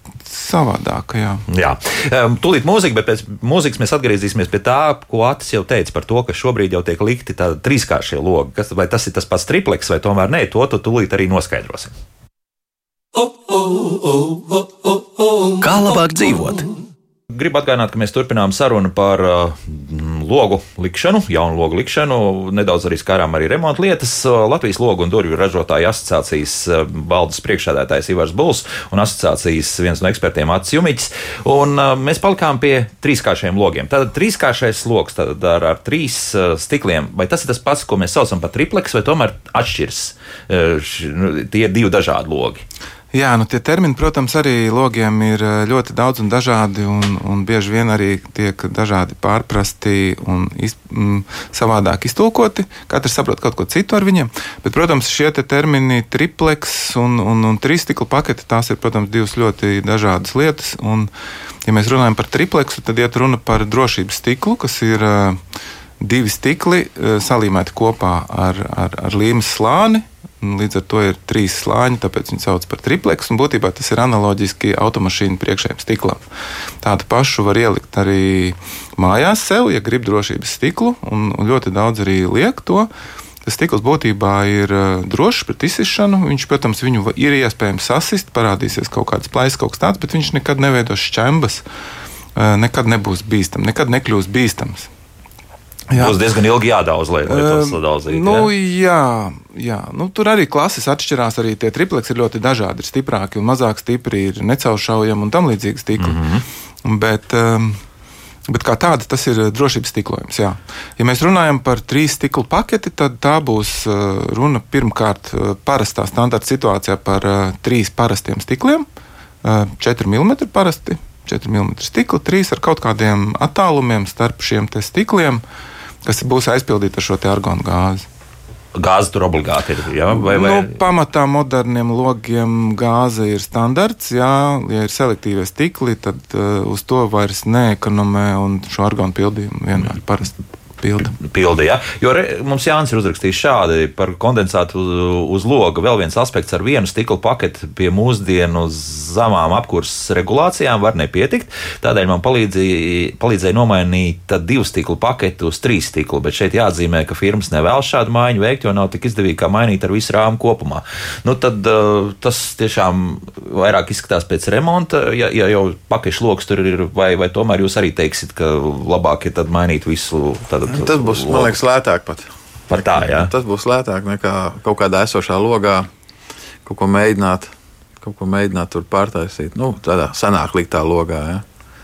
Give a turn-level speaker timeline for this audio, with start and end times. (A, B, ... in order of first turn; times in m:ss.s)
0:00.3-0:01.4 A
0:01.5-0:11.9 B
0:15.4-0:16.7 B
0:17.3-0:42.6 B
0:43.1-1:01.1 A
1:01.6-1:05.4 A
1:06.0-1:16.2 A
1:16.8-1:22.9 A
1:23.4-1:31.6 A
1:32.4-1:34.9 A
1:35.9-1:36.2 A
1:35.9-1:38.5 B
1:37.2-1:46.2 A
1:46.0-1:46.4 B
1:46.8-1:47.8 A
1:48.5-1:58.8 A
1:59.4-2:05.4 A
2:06.0-2:08.1 A
2:08.7-2:10.7 B
2:10.1-2:21.2 A
2:21.2-2:51.6 B
2:50.7-2:55.9 C
2:52.7-2:53.3 B
2:56.6-3:01.4 C